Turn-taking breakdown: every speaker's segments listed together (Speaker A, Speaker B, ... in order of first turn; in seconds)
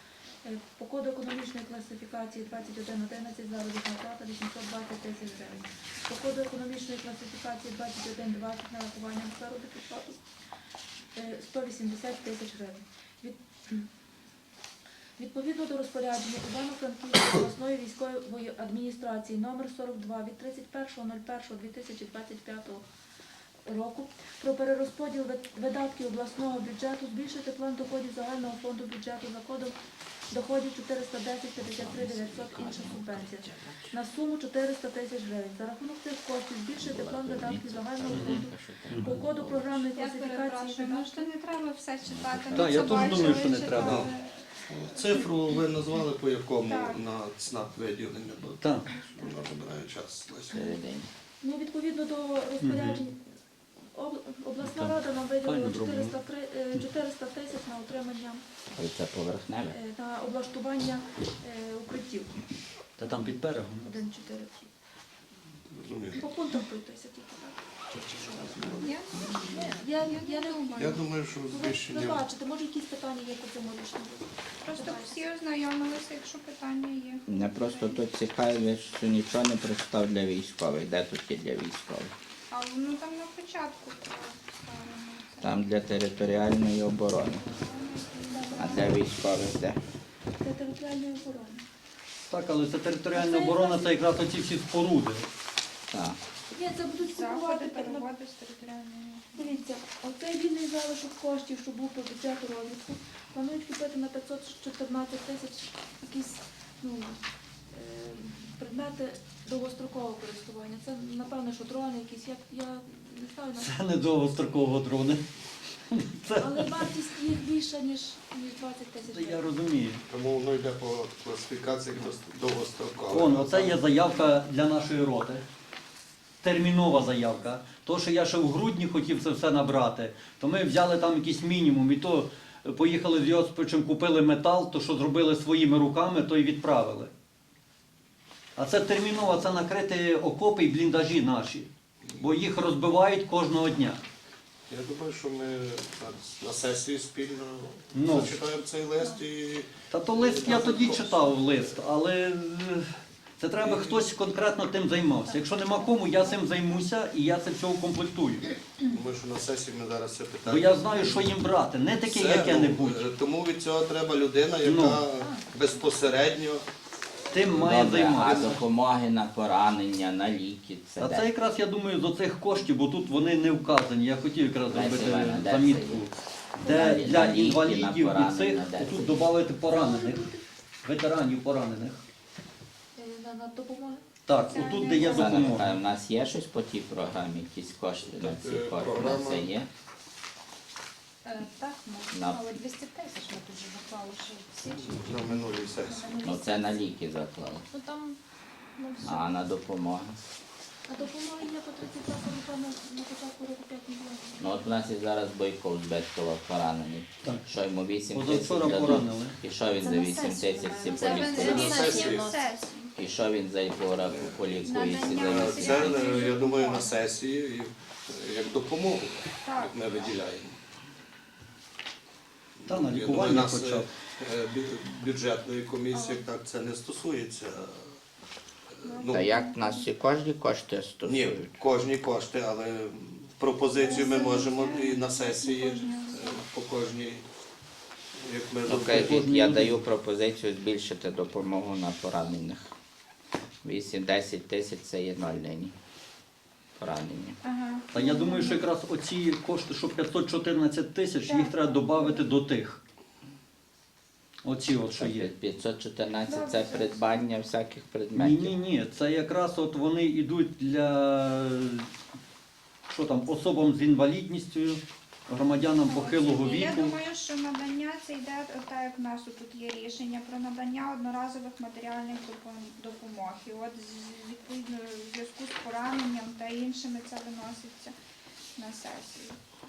Speaker A: 0.4-10.2, 11.1-13.9, 15.2-22.8, 23.6-29.7, 30.3-41.3, 51.4-53.2, 53.9-58.4, 59.7-62.3, 63.0-64.7, 66.1-75.2, 88.5-88.8, 90.4-91.6, 93.1-94.0, 96.5-98.1, 99.3-107.2, 107.7-113.7, 116.3-119.4, 176.6-177.6, 179.7-180.4, 182.9-185.0, 200.9-204.7
Speaker B: 31.6-33.9, 36.8-39.8, 42.0-43.4, 50.5-51.1, 58.8-59.8, 77.3-82.1, 85.4-87.4, 88.5-89.8, 95.9-96.2, 167.6-171.3, 174.7-176.1, 176.6-179.3, 185.0-189.7, 192.1-192.5, 196.2-197.7, 199.0-200.2, 204.4-211.8, 212.9-216.1, 229.1-231.6, 238.7-242.7, 243.6-245.7, 246.8-247.4, 254.9-258.5
Speaker C: 38.1-38.4, 42.5-44.1, 48.6-48.9, 52.6-53.0, 54.6-56.1, 63.0-63.9, 92.3-95.3, 113.6-115.2, 115.9-116.8, 119.1-120.0, 123.1-125.4, 126.4-137.1, 138.6-144.0, 147.9-148.4, 149.9-152.9, 153.4-158.5, 160.4-163.1, 164.6-165.1, 167.3-168.6, 171.0-180.3, 180.8-182.0, 184.3-185.7, 208.1-209.4, 222.7-223.9, 238.7-239.8, 247.9-252.8, 254.4-255.3, 258.1-261.9, 262.9-266.9
Speaker D: 40.0-45.6, 46.6-47.0, 68.8-71.0, 74.6-78.0, 82.5-85.6, 87.3-88.9, 97.0-99.4, 184.5-185.5, 210.8-212.9, 214.6-217.0, 219.4-220.1, 225.9-226.2, 228.8-229.8, 233.8-236.4, 247.4-248.6, 251.2-252.3, 256.2-257.1, 265.8-277.9, 278.6-279.4
Speaker E: 43.7-44.1, 44.6-50.7, 65.7-66.2, 68.3-69.7, 70.7-72.2, 120.1-123.8, 144.7-151.6, 153.6-154.1, 158.9-161.3, 162.0-166.7, 167.3-168.6, 188.1-189.5, 194.8-196.1, 211.3-212.4, 214.1-220.6, 222.6-227.9, 228.8-229.3, 231.1-237.2, 238.2-239.2
Speaker F: 155.3-156.2, 191.2-196.7, 197.7-198.2, 198.8-199.3, 209.8-212.5, 216.4-216.7